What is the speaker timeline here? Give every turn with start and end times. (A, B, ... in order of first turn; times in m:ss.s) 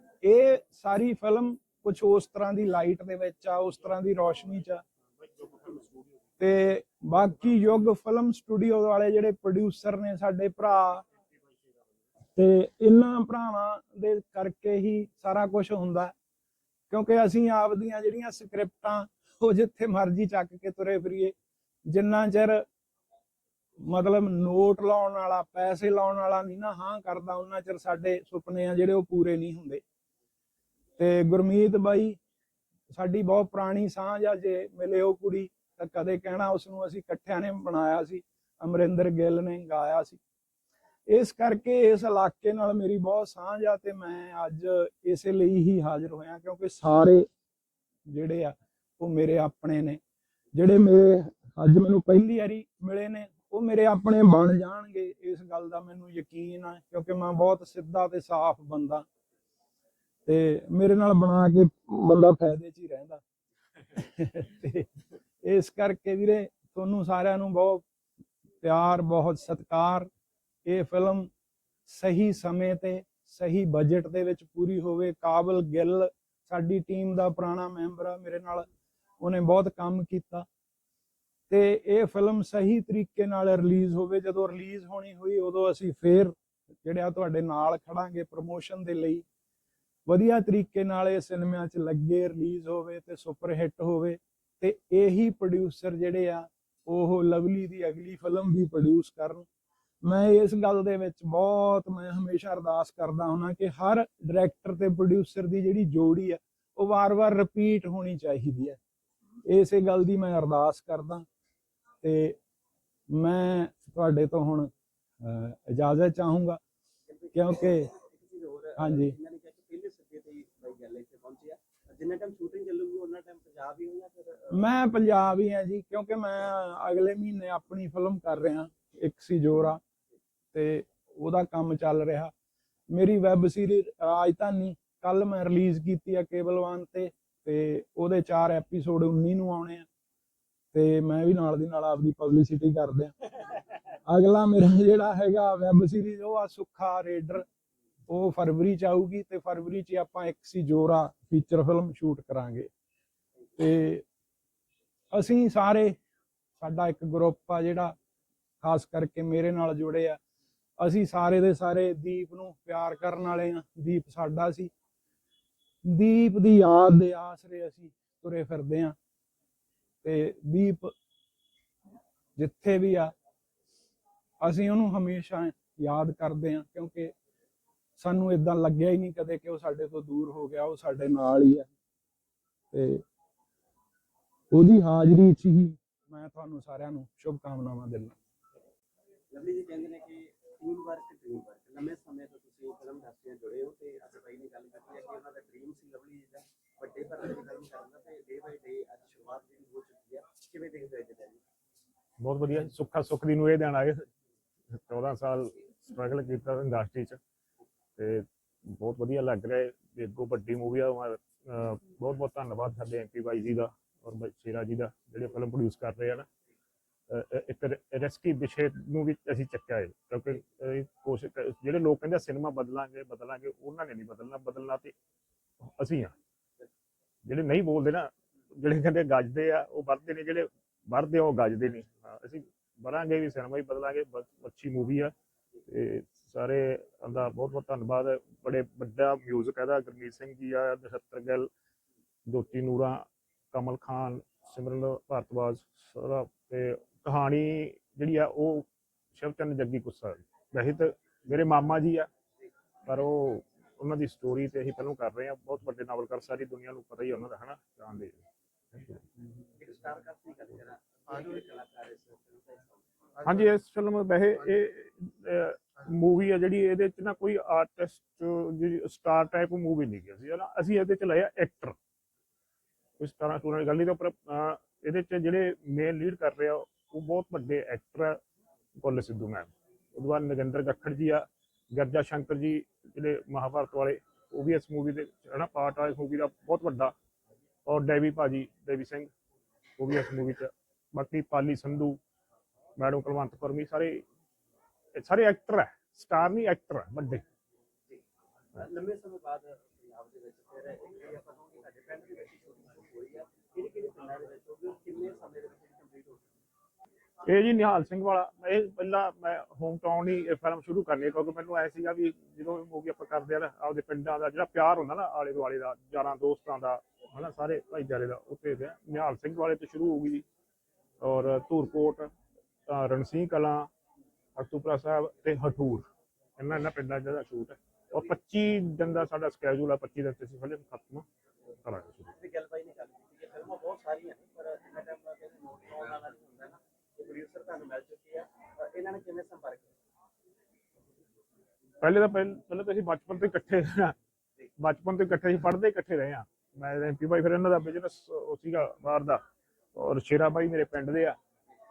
0:00.2-0:04.8 A
0:05.4-0:06.0 B
0:06.4-0:11.0 A
0:12.4-0:16.1 A
0:16.9-0:21.3 A
0:21.9-0:22.6 A
0:23.8-0:29.8 A
0:31.0-0:32.2 A
0:32.9-0:40.2 A
0:41.1-0:47.3 A
0:48.1-0:50.0 A
0:50.5-0:59.1 A
1:00.2-1:03.2 A
1:03.9-1:04.9 A
1:05.4-1:07.8 A
1:08.6-1:10.1 A
1:10.6-1:11.3 A
1:11.9-1:18.7 A
1:19.2-1:20.4 A
1:21.5-1:29.2 A
1:30.1-1:39.4 A
1:40.0-1:48.8 A
1:49.4-1:51.2 A
1:52.0-1:52.4 A
1:53.1-1:56.6 A
1:57.1-1:57.5 C
1:57.3-1:57.9 A
1:58.0-2:04.4 C
1:58.8-1:59.2 A
2:04.5-2:09.8 A
2:10.5-2:12.3 A
2:12.9-2:19.8 A
2:20.7-2:23.1 A
2:24.1-2:27.4 A
2:28.1-2:32.7 A
2:33.6-2:34.0 A
2:35.1-2:36.0 A
2:36.6-2:38.0 A
2:38.6-2:40.2 A
2:40.8-2:44.7 A
2:45.8-2:49.0 A
2:50.0-2:50.9 A
2:52.4-2:53.1 A
2:54.4-2:57.1 A
2:58.0-3:01.7 A
3:02.7-3:03.0 A
3:04.5-3:08.2 A
3:09.3-3:16.3 C
3:16.8-3:21.3 C
3:22.2-3:24.1 B
3:24.8-3:27.2 B
3:28.0-3:36.2 B
3:37.1-3:44.9 B
3:45.8-3:46.1 B
3:47.2-3:55.1 B
3:55.7-4:01.5 B
4:02.3-4:12.1 B
4:12.9-4:18.2 B
4:18.7-4:19.0 B
4:19.7-4:20.6 C
4:21.2-4:22.6 C
4:23.2-4:31.8 B
4:33.0-4:38.2 B
4:38.8-4:46.9 B
4:47.7-4:49.1 B
4:49.8-4:52.0 B
4:52.8-4:54.0 B
4:55.0-4:57.2 B
4:58.6-4:59.4 C
5:00.0-5:06.2 C
5:07.2-5:20.2 B
5:21.0-5:22.1 B
5:22.7-5:23.7 B
5:24.4-5:25.9 B
5:26.4-5:31.0 B
5:31.6-5:32.1 B
5:32.4-5:36.4 C
5:37.0-5:38.2 C
5:38.9-5:39.6 C
5:41.8-5:43.9 B
5:44.6-5:49.2 B
5:49.7-5:51.2 B